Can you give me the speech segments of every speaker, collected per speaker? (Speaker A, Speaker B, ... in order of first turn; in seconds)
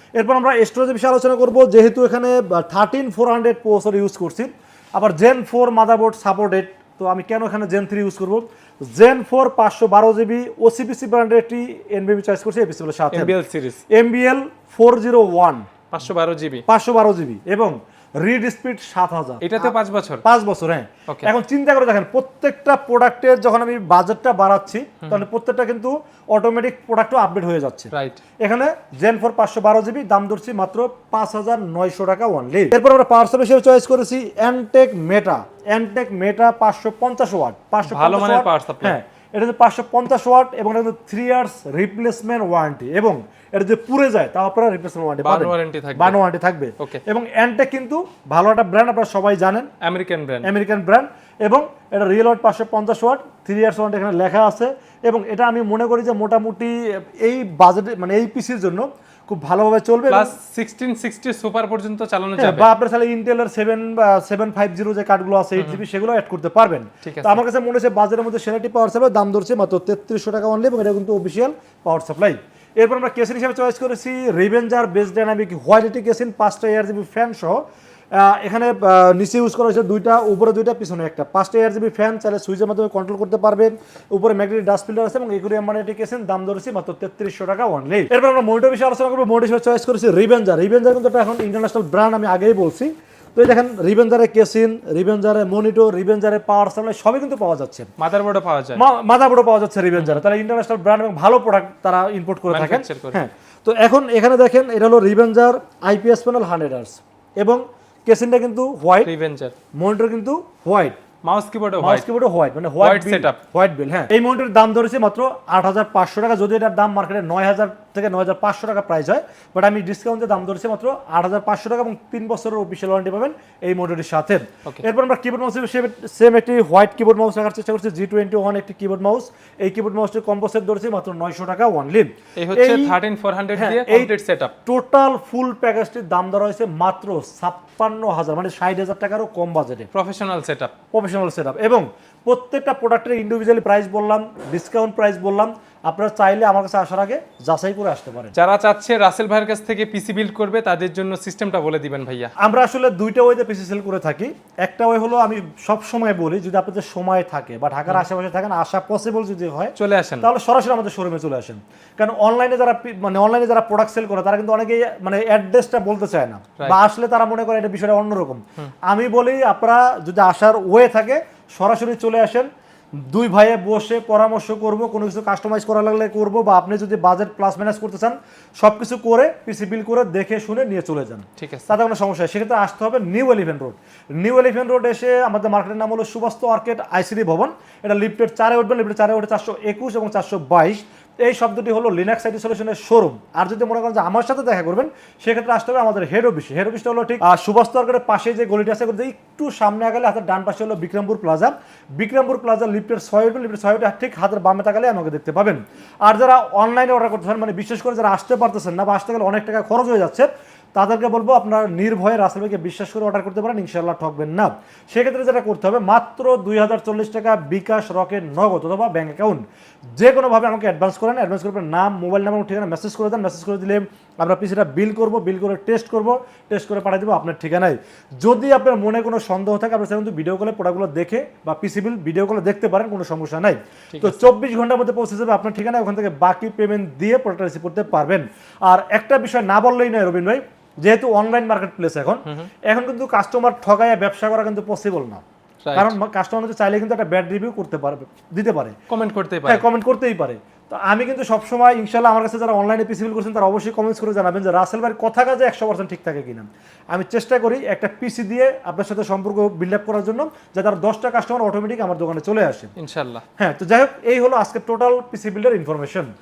Speaker A: 0.1-13.4, 13.9-15.6, 16.7-49.7, 50.4-60.4, 62.4-77.6, 78.1-97.9, 98.8-109.1, 109.8-111.0, 111.8-132.9, 133.5-134.1, 134.6-139.9, 140.9-148.3, 152.4-219.4, 220.0-245.2, 245.7-248.7, 249.4-262.7, 263.4-266.1
Speaker B: 13.1-13.8, 15.9-16.6, 19.4-20.2, 27.9-28.2, 37.9-39.0, 45.2-46.2, 49.8-50.5, 60.1-62.7, 67.0-67.4, 98.0-98.8, 102.5-103.2, 109.0-109.5, 111.2-112.1, 112.8-113.4, 132.4-134.5, 139.9-140.7, 148.3-152.3, 159.8-160.3, 181.4-181.7, 233.9-234.3, 245.6-245.9, 248.9-249.6, 262.8-263.2